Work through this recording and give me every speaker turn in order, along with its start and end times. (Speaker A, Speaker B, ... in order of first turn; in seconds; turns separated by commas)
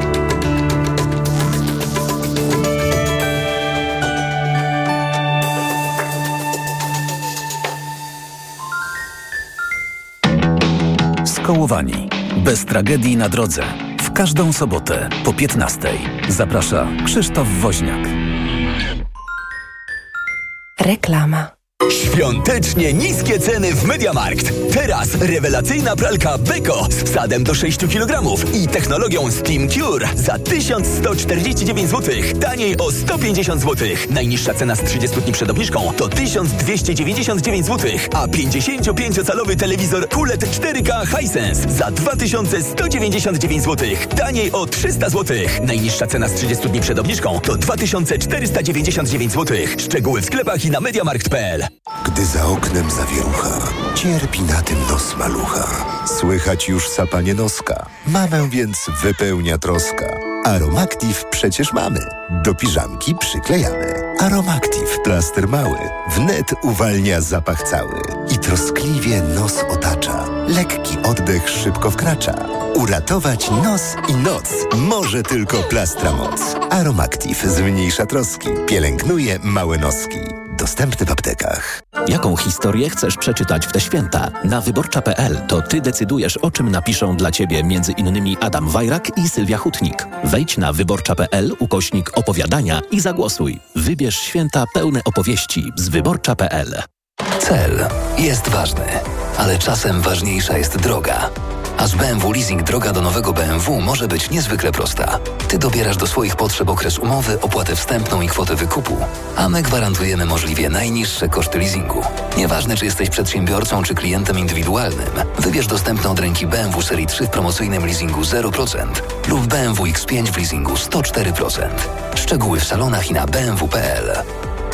Speaker A: 11.2-18.1, Speaker B: 20.8-21.5, Speaker C: 21.9-51.7, Speaker D: 52.0-81.8, Speaker E: 82.0-96.8, Speaker B: 97.4-124.2